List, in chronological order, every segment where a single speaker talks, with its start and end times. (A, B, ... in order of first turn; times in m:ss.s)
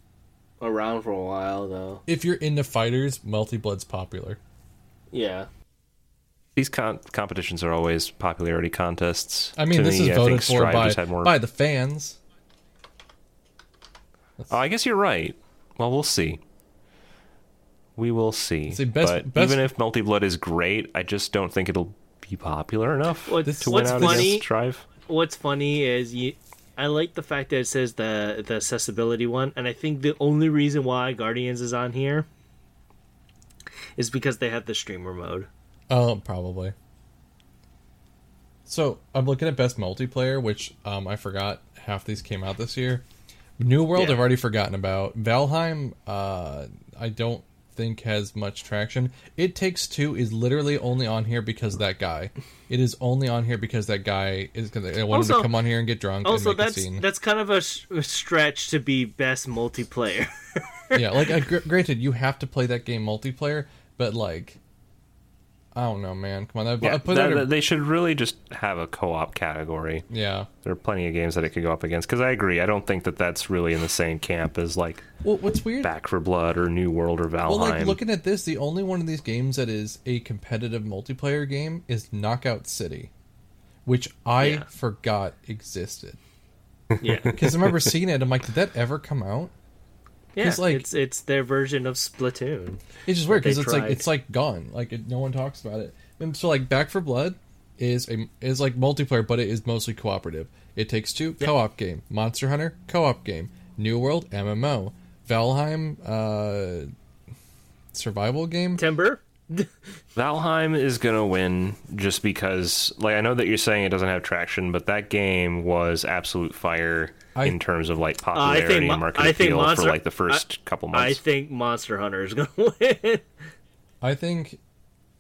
0:00.6-0:02.0 A
0:02.1-0:04.4 B
0:05.1-0:05.5 A
0:06.6-0:11.4 C
0:09.6-0:12.2 B
0:14.5-0:16.4 C
0:18.0-0:24.8 C
0:18.7-0:19.7 B
0:23.3-0:24.5 A
0:23.4-0:24.4 B
0:25.0-0:32.3 A
0:34.0-0:35.5 A
0:35.9-0:36.8 B
0:38.7-0:43.0 B
0:43.6-0:57.0 B
0:44.0-0:44.2 A
0:55.1-0:55.5 A
0:56.2-1:01.3 A
1:00.9-1:04.6 B
1:05.8-1:07.5 B
1:06.8-1:10.1 C
1:10.1-1:10.5 B
1:10.6-1:15.1 C
1:15.2-1:15.9 B
1:15.8-1:18.0 C
1:17.5-1:23.1 B
1:23.9-1:26.2 B
1:24.4-1:24.7 A
1:27.0-1:27.4 A
1:27.3-1:27.7 C
1:27.3-1:29.5 B
1:30.4-1:34.0 A
1:30.4-1:30.8 B
1:33.1-1:46.9 B
1:47.9-1:48.8 B
1:48.8-1:49.8 A
1:50.2-2:01.2 C
1:58.4-2:03.3 A
2:04.0-2:04.6 B